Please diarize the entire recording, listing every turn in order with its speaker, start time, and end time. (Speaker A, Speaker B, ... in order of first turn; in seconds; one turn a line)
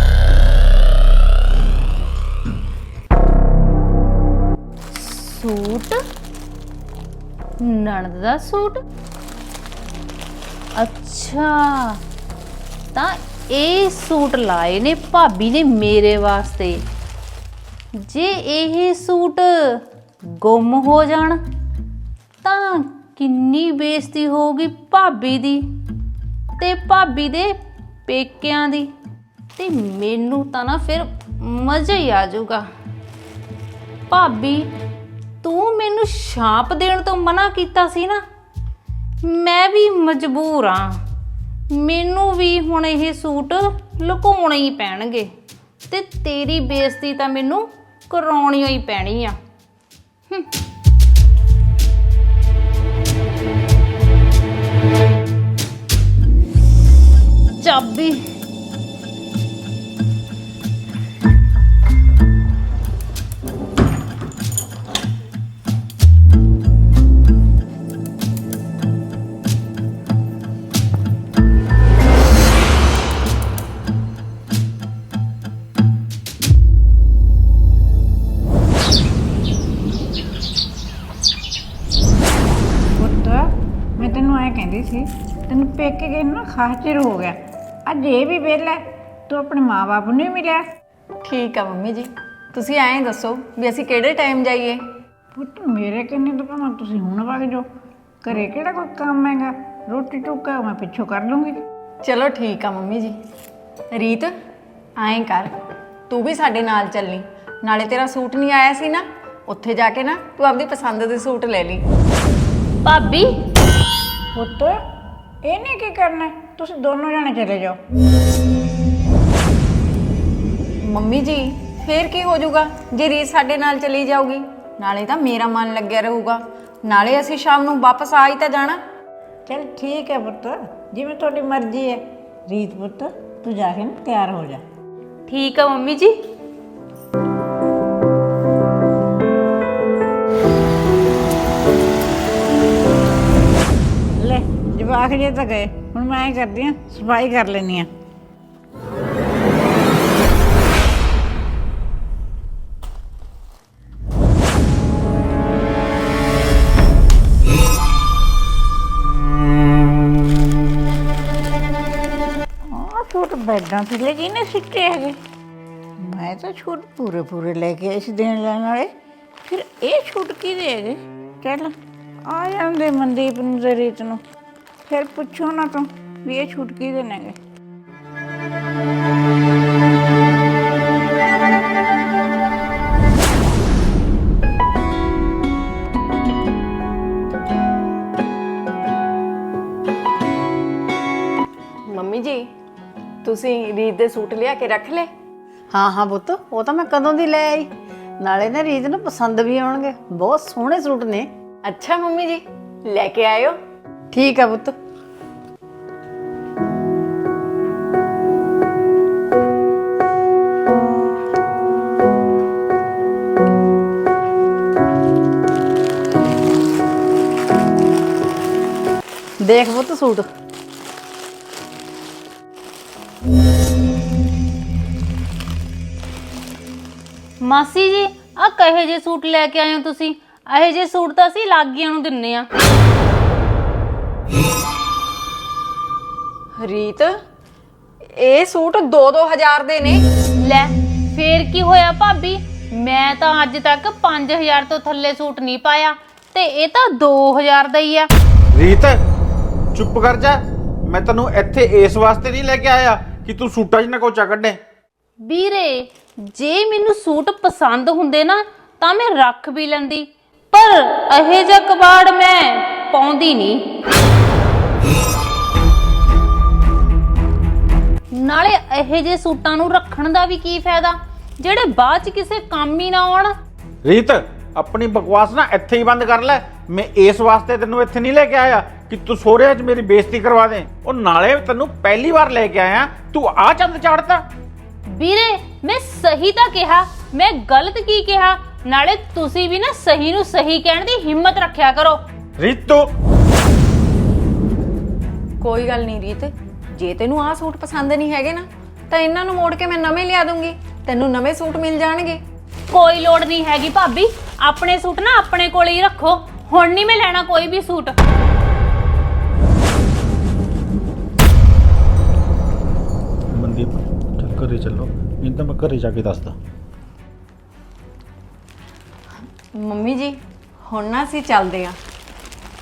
Speaker A: 4.9-6.0
Speaker A: 7.6-8.8
Speaker A: 10.8-12.0
Speaker A: 12.9-16.8
Speaker A: 18.0-19.8
Speaker A: 20.3-21.4
Speaker A: 22.4-25.6
Speaker A: 26.6-27.5
Speaker A: 28.1-28.9
Speaker A: 29.6-32.7
Speaker A: 34.1-34.7
Speaker A: 35.4-38.2
Speaker A: 39.2-41.0
Speaker A: 41.7-45.3
Speaker A: 45.9-49.4
Speaker A: 57.6-58.2
Speaker B: 83.0-83.3
Speaker B: 84.0-87.3
Speaker B: 87.9-88.8
Speaker B: 89.3-90.6
Speaker C: 91.2-94.8
Speaker B: 95.4-97.6
Speaker B: 98.2-101.6
Speaker C: 102.0-103.1
Speaker C: 103.9-104.3
Speaker C: 105.0-105.5
Speaker C: 106.1-111.8
Speaker A: 112.8-113.3
Speaker B: 114.4-114.7
Speaker B: 115.5-117.7
Speaker C: 120.8-128.8
Speaker B: 129.5-130.4
Speaker B: 131.0-131.9
Speaker B: 132.5-134.6
Speaker A: 135.3-136.1
Speaker B: 144.5-147.8
Speaker B: 162.7-165.2
Speaker B: 166.2-168.8
Speaker B: 169.5-171.7
Speaker B: 172.3-174.2
Speaker B: 174.9-177.3
Speaker C: 191.8-192.4
Speaker C: 193.2-195.1
Speaker D: 195.7-197.7
Speaker D: 198.2-201.3
Speaker C: 201.6-203.6
Speaker D: 204.1-204.7
Speaker D: 219.4-220.3
Speaker A: 227.4-232.5
Speaker C: 236.6-237.1
Speaker C: 238.2-240.0
Speaker A: 240.4-248.1
Speaker E: 248.5-249.0
Speaker E: 249.7-254.6
Speaker A: 255.2-263.6
Speaker A: 268.1-273.3
Speaker E: 273.8-284.2
Speaker A: 284.9-292.0
Speaker E: 292.4-292.9
Speaker C: 295.4-302.2
Speaker A: 302.7-307.9
Speaker E: 313.3-316.4
Speaker C: 319.5-320.1
Speaker C: 320.7-321.8